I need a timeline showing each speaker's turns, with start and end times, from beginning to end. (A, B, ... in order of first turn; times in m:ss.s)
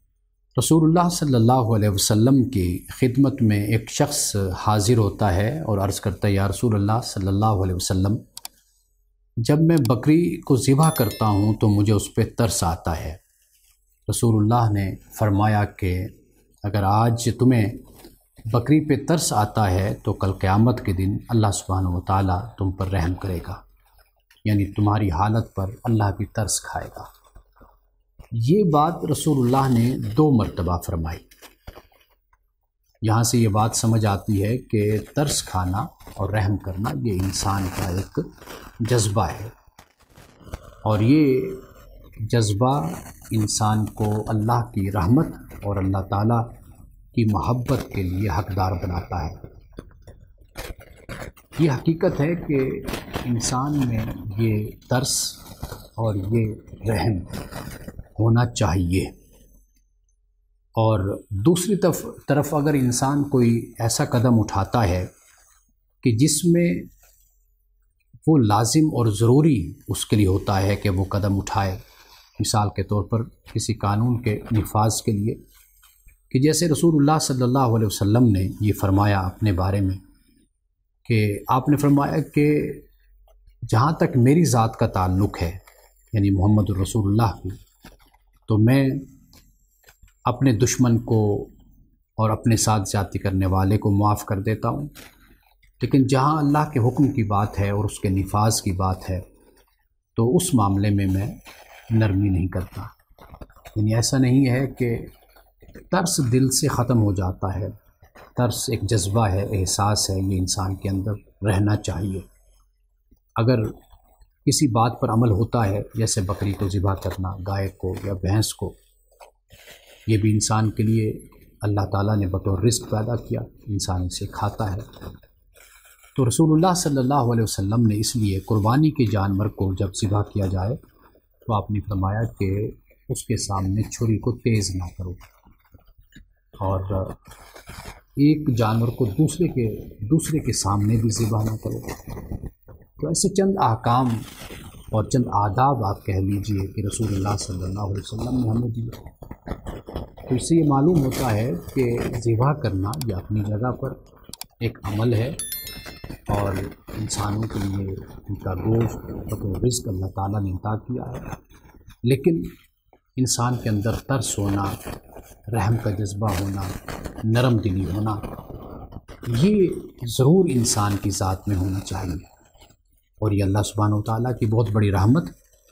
0:00.6-0:08.2 A
0:09.4-0:13.2 A
0:14.1-0:16.1 A
0:16.6-0:17.8 A
0:18.5-0:23.6 A
0:24.4-0:27.1 A
0:28.3-0:31.2 A
0:33.0-0:39.5 A
0:40.8-0:41.6 A
0:42.2-0:46.5 A
0:47.1-0:49.4 A
0:51.6-0:55.4 A
0:56.0-0:57.3 A
0:58.2-0:59.1 A
1:00.8-1:05.1 A
1:06.0-1:06.9 A
1:08.2-1:11.8 A
1:12.4-1:15.4 A
1:16.3-1:20.0 A
1:21.0-1:22.8 A
1:23.7-1:25.6 A
1:26.1-1:27.6 A
1:28.5-1:29.1 A
1:30.2-1:31.5 A
1:32.2-1:34.9 A
1:35.8-1:39.2 A
1:40.2-1:41.4 A
1:41.9-1:42.9 A
1:43.7-1:45.1 A
1:45.9-1:47.8 A
1:48.4-1:52.2 A
1:53.4-1:53.8 A
1:54.4-1:58.8 A
2:00.1-2:04.9 A
2:06.1-2:10.8 A
2:11.4-2:15.2 A
2:16.6-2:17.2 A
2:18.2-2:21.9 A
2:23.0-2:24.3 A
2:24.9-2:29.0 A
2:30.2-2:34.0 A
2:34.6-2:35.4 A
2:36.3-2:41.4 A
2:42.0-2:42.5 A
2:43.2-2:44.8 A
2:45.5-2:48.2 A
2:49.3-2:52.3 A
2:53.2-2:55.3 A